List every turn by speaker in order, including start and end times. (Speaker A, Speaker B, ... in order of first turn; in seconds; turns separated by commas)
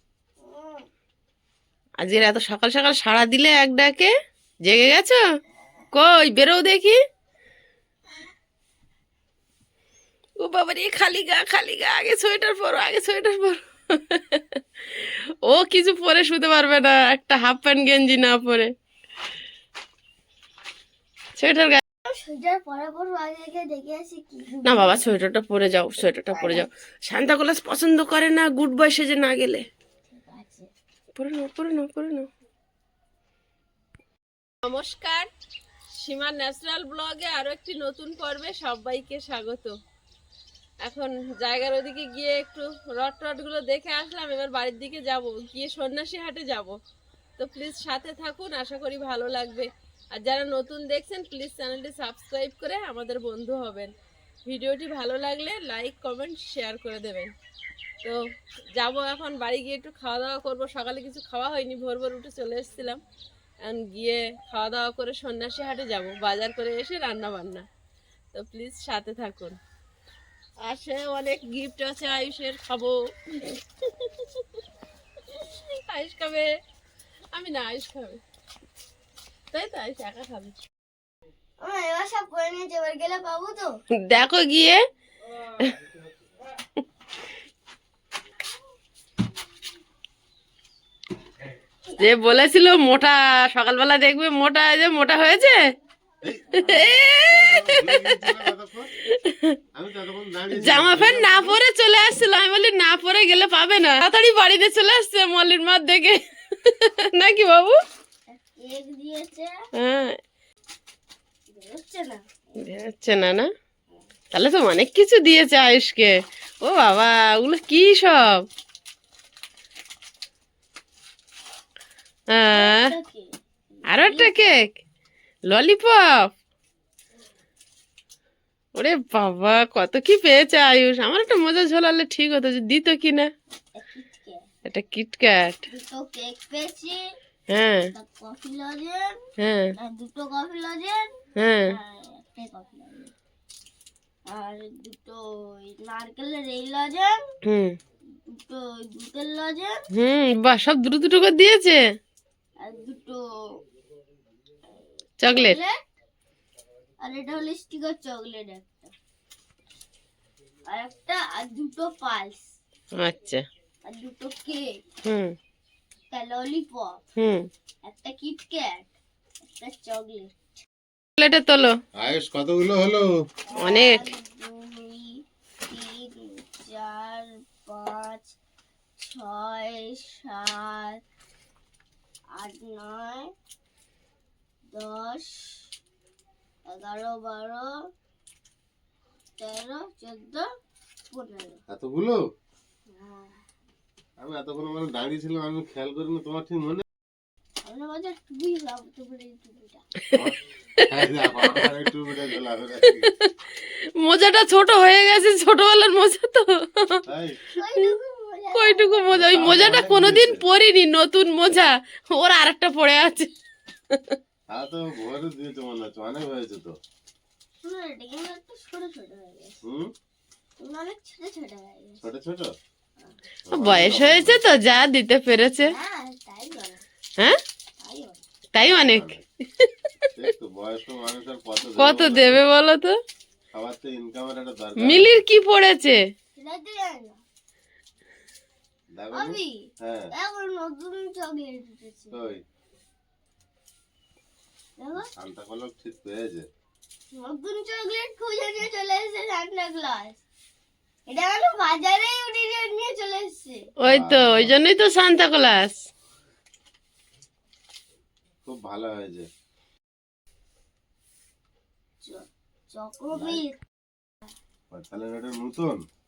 Speaker A: 0.4-0.8, Speaker B: 2.0-4.1, Speaker B: 4.7-5.2, Speaker B: 5.9-7.0, Speaker B: 10.4-18.7, Speaker B: 21.4-21.8, Speaker A: 22.1-25.2, Speaker B: 24.7-29.6, Speaker A: 26.3-26.7, Speaker A: 30.1-30.7, Speaker B: 31.2-32.3, Speaker B: 34.6-35.3, Speaker B: 36.0-39.8, Speaker B: 40.8-46.8, Speaker B: 47.4-53.9, Speaker B: 54.5-57.3, Speaker B: 58.8-63.0, Speaker B: 63.6-67.7, Speaker B: 68.3-69.6, Speaker B: 70.6-74.4, Speaker B: 75.3-76.5, Speaker B: 77.3-78.2, Speaker B: 79.5-80.6, Speaker A: 81.6-83.7, Speaker B: 84.0-84.8, Speaker B: 92.0-95.7, Speaker C: 96.2-98.9, Speaker B: 96.7-98.2, Speaker B: 99.2-99.6, Speaker C: 99.7-101.6, Speaker B: 100.5-107.8, Speaker A: 108.3-109.5, Speaker B: 109.8-110.2, Speaker A: 111.5-112.6, Speaker B: 112.6-113.5, Speaker B: 114.3-118.5, Speaker B: 122.3-122.9, Speaker A: 122.5-124.6, Speaker B: 123.9-124.8, Speaker B: 125.5-126.3, Speaker B: 128.8-133.3, Speaker A: 133.8-134.5, Speaker B: 134.7-135.7, Speaker A: 135.7-137.0, Speaker B: 137.5-137.9, Speaker A: 137.9-139.2, Speaker B: 139.4-139.7, Speaker A: 139.8-143.1, Speaker B: 141.4-141.7, Speaker A: 144.3-147.2, Speaker B: 147.4-147.8, Speaker A: 148.3-149.8, Speaker B: 149.9-151.8, Speaker A: 152.6-153.2, Speaker B: 155.2-155.6, Speaker A: 155.3-155.8, Speaker A: 157.0-158.9, Speaker A: 160.7-162.5, Speaker B: 162.9-163.5, Speaker A: 163.8-164.8, Speaker B: 165.0-165.3, Speaker A: 166.1-167.0, Speaker B: 167.2-167.5, Speaker A: 167.8-168.9, Speaker A: 169.4-170.4, Speaker B: 171.2-171.8, Speaker C: 172.0-173.1, Speaker A: 173.5-178.3, Speaker B: 173.6-174.0, Speaker A: 179.0-181.0, Speaker A: 182.3-183.3, Speaker A: 184.7-185.7, Speaker A: 186.7-187.9, Speaker A: 189.4-190.5, Speaker A: 191.1-191.6, Speaker C: 191.7-192.2, Speaker A: 192.9-193.4, Speaker C: 194.2-196.8, Speaker A: 197.6-199.8, Speaker C: 200.1-203.1, Speaker B: 202.9-207.0, Speaker C: 207.1-207.4, Speaker A: 207.6-209.1, Speaker B: 208.5-213.3, Speaker C: 209.1-210.4, Speaker B: 213.9-214.2, Speaker C: 214.5-216.7, Speaker A: 217.6-219.6, Speaker C: 219.7-219.9, Speaker A: 220.6-222.0, Speaker C: 222.0-222.5, Speaker C: 223.5-224.4, Speaker B: 223.5-225.7, Speaker A: 225.6-226.8, Speaker A: 227.8-228.2, Speaker B: 228.5-230.1, Speaker C: 228.6-229.2, Speaker C: 230.2-232.4, Speaker B: 231.7-233.0, Speaker C: 233.5-235.1, Speaker B: 234.8-236.0, Speaker A: 236.3-237.2, Speaker C: 238.9-240.1, Speaker A: 239.1-242.2, Speaker C: 242.1-242.4, Speaker A: 244.8-245.1, Speaker C: 245.2-246.5, Speaker A: 247.1-250.2, Speaker A: 251.1-253.7, Speaker B: 253.8-255.8, Speaker C: 253.8-254.6, Speaker C: 258.5-259.3, Speaker A: 262.0-263.6, Speaker C: 263.1-263.4, Speaker C: 264.7-265.8